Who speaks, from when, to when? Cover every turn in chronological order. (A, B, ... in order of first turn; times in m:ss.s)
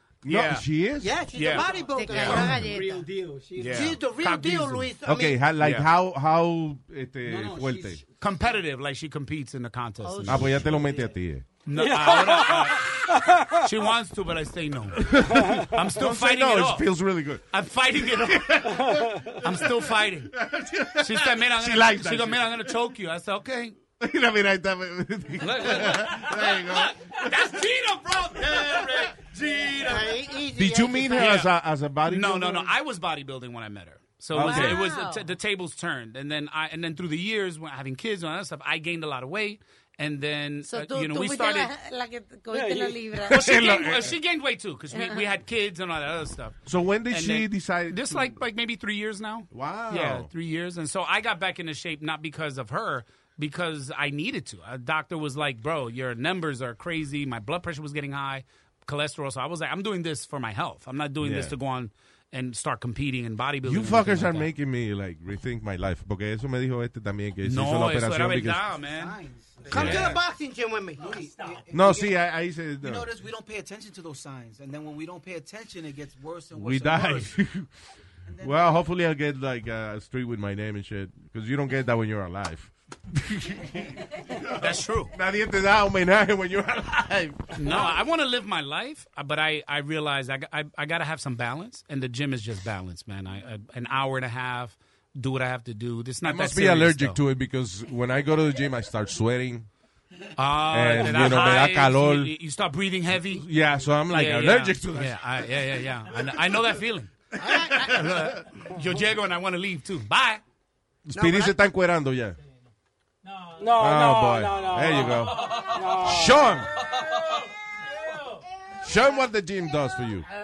0:00.2-0:01.1 A
0:00.3-0:02.6 B
0:01.0-0:03.0 C
0:01.7-0:03.9 D
0:01.9-0:03.0 E
0:02.3-0:02.7 A
0:03.6-0:04.9 B
0:03.7-0:05.5 C
0:05.0-0:08.0 A
0:05.6-0:05.9 B
0:07.3-0:08.0 D
0:08.2-0:10.7 B
0:10.0-0:10.8 E
0:10.2-0:11.6 A
0:11.6-0:16.9 B
0:11.7-0:13.6 F
0:14.9-0:22.7 A
0:17.5-0:18.8 B
0:18.8-0:19.4 F
0:19.4-0:20.3 B
0:21.0-0:23.8 B
0:24.0-0:27.3 A
0:25.4-0:30.2 B
0:28.4-0:29.1 A
0:29.8-0:31.4 C
0:30.6-0:32.7 A
0:31.1-0:31.5 B
0:32.0-0:41.7 B
0:34.3-0:34.9 A
0:34.4-0:35.2 E
0:40.7-0:43.7 E
0:42.5-0:43.0 F
0:43.2-0:44.2 A
0:43.3-1:04.5 B
0:44.9-0:45.2 E
0:46.7-0:48.4 A
0:49.5-0:50.3 A
1:01.2-1:01.5 A
1:03.6-1:08.6 A
1:07.4-1:09.2 B
1:08.8-1:10.2 D
1:09.7-1:10.2 A
1:09.7-1:10.2 B
1:09.7-1:11.2 C
1:11.0-1:12.2 D
1:11.7-1:13.1 A
1:12.8-1:17.4 D
1:16.6-1:17.9 A
1:18.3-1:18.8 D
1:18.4-1:28.0 A
1:24.6-1:25.1 B
1:27.5-1:37.2 B
1:36.2-1:39.7 A
1:40.4-1:43.4 B
1:40.7-1:42.3 A
1:43.3-1:45.2 A
1:44.1-1:47.1 B
1:47.4-1:48.4 A
1:47.6-1:50.4 B
1:51.1-1:52.4 A
1:51.1-1:51.6 C
1:53.6-1:56.5 F
1:53.8-1:56.8 A
1:58.8-2:00.3 A